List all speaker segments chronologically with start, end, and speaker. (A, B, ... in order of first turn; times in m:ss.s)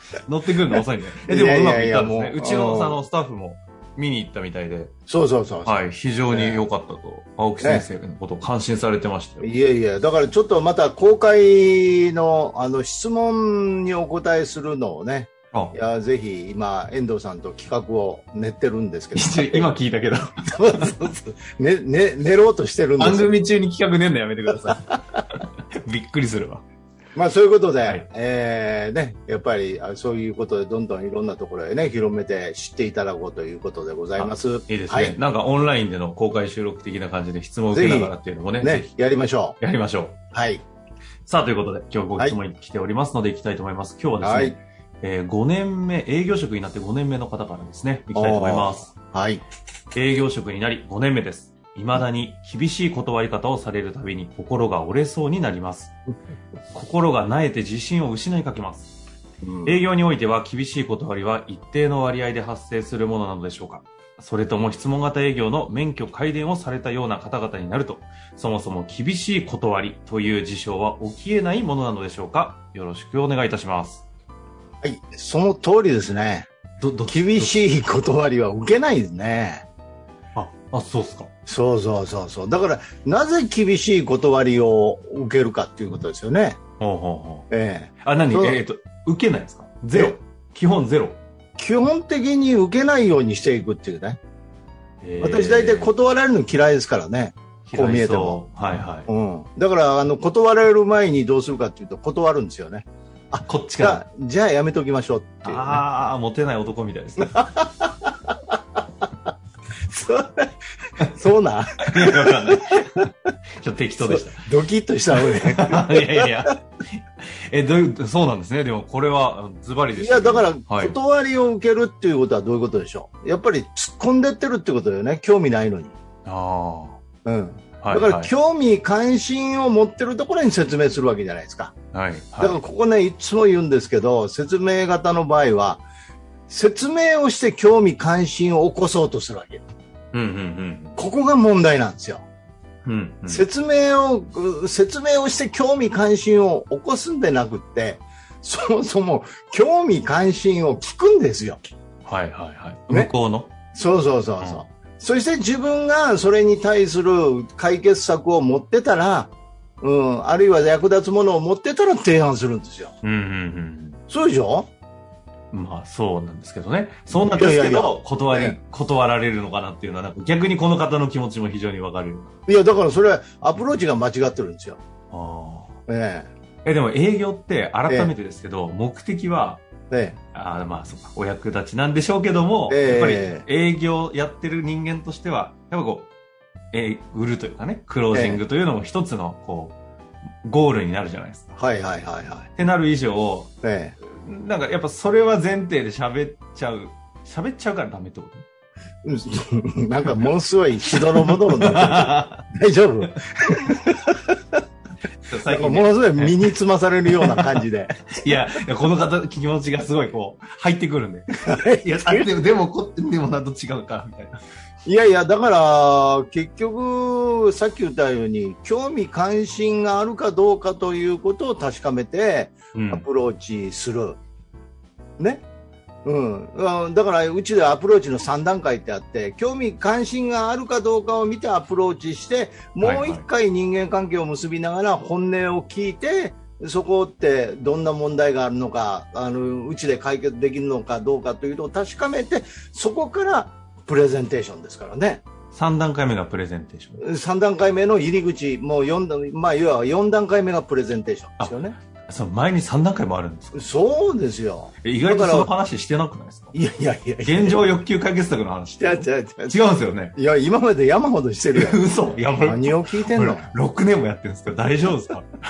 0:00.3-0:04.9 A
0:01.2-0:03.0 B
0:05.1-0:06.6 B
0:05.6-0:09.5 A
0:07.6-0:07.9 B
0:09.4-0:19.7 B
0:19.2-0:21.0 A
0:20.5-0:23.6 B
0:23.0-0:26.6 A
0:24.7-0:25.0 B
0:27.2-0:35.2 B
0:34.2-0:38.9 A
0:37.7-0:39.6 B
0:39.6-0:40.2 A
0:40.3-0:40.6 B
0:41.3-0:48.9 A
0:44.2-0:44.6 B
0:48.1-0:49.4 B
0:49.9-0:56.0 A
0:56.7-0:59.0 A
0:59.4-0:59.8 B
0:59.6-1:14.0 A
1:14.8-1:16.5 B
1:16.8-1:17.6 A
1:17.1-1:19.7 B
1:20.4-1:21.3 A
1:21.5-1:26.6 B
1:26.8-1:27.5 A
1:27.5-1:28.6 B
1:28.0-1:31.2 A
1:29.9-1:30.2 B
1:31.6-1:34.2 B
1:35.0-1:35.9 A
1:35.2-1:38.4 B
1:37.7-1:39.1 A
1:39.1-1:45.8 B
1:43.5-1:44.0 A
1:45.4-1:47.5 A
1:47.2-1:48.4 B
1:49.9-1:53.0 B
1:51.8-1:54.4 A
1:54.0-1:56.5 B
1:55.1-2:01.0 A
2:00.0-2:06.0 B
2:06.2-2:07.0 A
2:07.2-2:11.8 B
2:07.8-2:08.3 A
2:11.9-2:12.6 A
2:12.4-2:15.8 B
2:16.5-2:19.6 B
2:20.1-2:21.0 A
2:21.0-2:22.2 B
2:22.8-2:23.4 A
2:23.3-2:31.6 B
2:32.1-2:33.6 A
2:33.7-2:42.9 B
2:43.0-2:44.0 A
2:44.1-2:44.7 B
2:45.5-2:52.3 A
2:47.2-2:48.6 B
2:52.5-2:54.8 B
2:55.1-2:55.7 A
2:55.9-2:56.3 B
2:56.6-2:59.6 A
2:57.9-2:58.1 B
2:59.9-3:00.2 B
3:00.3-3:06.1 A
3:02.7-3:03.5 B
3:06.7-3:09.8 A
3:08.1-3:08.4 B
3:10.4-3:11.6 A
3:11.6-3:12.5 B
3:12.6-3:13.5 A
3:13.6-3:14.0 B
3:14.0-3:18.4 A
3:19.0-3:24.6 B
3:20.9-3:22.4 A
3:25.2-3:26.5 A
3:25.5-3:28.2 B
3:27.1-3:27.6 A
3:28.2-3:34.4 A
3:31.3-3:32.3 B
3:34.8-3:44.2 B
3:42.8-3:43.0 A
3:45.2-3:45.4 B
3:46.0-4:05.2 B
3:52.8-3:53.2 A
4:05.5-4:07.0 A
4:07.0-4:11.8 B
4:11.4-4:13.7 A
4:13.5-4:15.5 B
4:14.8-4:16.6 A
4:16.5-4:17.7 B
4:17.2-4:20.2 A
4:18.8-4:19.6 B
4:20.1-4:23.6 B
4:21.6-4:25.4 A